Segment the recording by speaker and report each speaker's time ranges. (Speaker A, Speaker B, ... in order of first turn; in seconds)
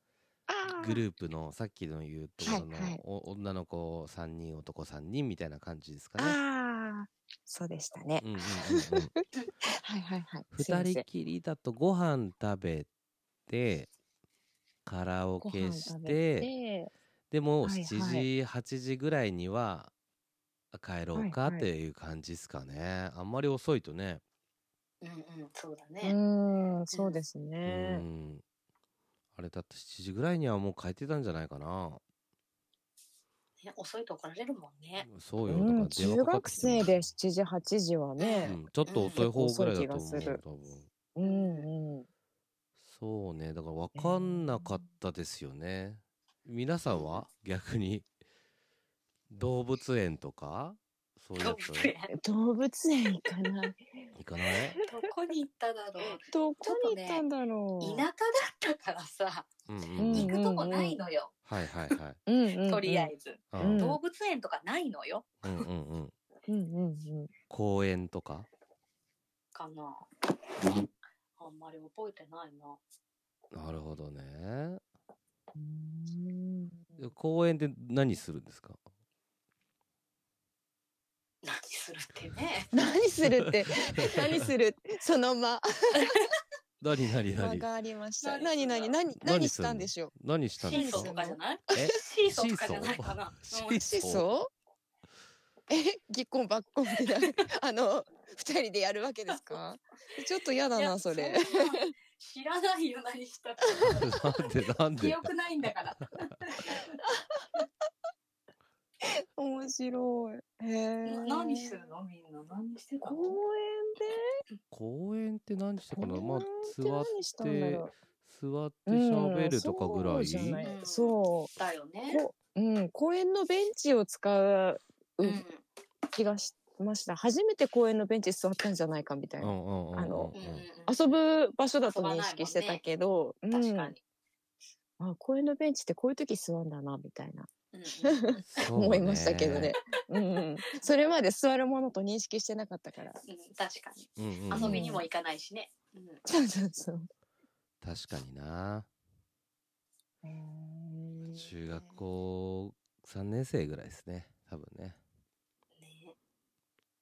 Speaker A: 0.5-1.0, 2.4-3.0, 6.2-9.1, 9.8-11.0, 15.4-16.9, 17.6-18.3, 21.1-21.7, 26.0-28.0, 35.4-40.4, 41.1-42.0, 43.9-44.8, 52.1-53.8, 54.5-54.9, 56.2-58.0, 60.0-61.0, 62.2-64.0, 66.5-67.3, 75.5-77.1, 82.7-86.2, 87.3-90.1, 90.7-91.8, 93.8-94.5, 95.7-101.9, 109.4-111.9, 113.0-114.2, 115.9-117.9, 118.9-121.5, 122.1-125.4, 126.1-133.9, 135.0-137.5, 138.0-143.2, 144.5-145.1, 146.2-147.1, 150.2-151.5
Speaker B: 0.7-6.4, 8.2-9.1, 10.5-12.9, 13.5-13.9, 14.8-16.5, 17.3-19.9, 20.7-24.2, 27.6-28.4, 29.3-32.0, 35.0-37.0, 38.4-40.9, 42.9-48.1, 49.3-51.9, 54.1-54.8, 59.7-60.3, 61.5-62.2, 63.5-63.8, 65.4-66.1, 67.5-68.5, 73.5-74.8, 77.0-78.8, 83.3-84.5, 86.8-87.7, 89.2-91.1, 91.7-94.2, 103.8-105.3, 114.7-120.6, 129.4-130.6, 138.5-139.7, 144.2-144.8, 147.8-148.9, 151.3-155.0
Speaker C: 25.0-26.2, 26.9-27.2, 33.6-35.1, 38.2-39.2, 41.2-41.7, 46.9-47.2, 51.4-52.1, 54.9-57.2, 57.8-61.3, 62.6-65.7, 69.5-70.1, 71.4-72.8, 81.4-82.7, 88.2-89.0, 90.6-93.8, 100.7-104.3, 105.0-106.8, 111.0-113.4, 120.6-122.2, 125.2-125.6, 130.3-131.0, 131.8-132.8, 133.5-134.0, 137.7-138.4, 143.2-146.2, 155.8-156.2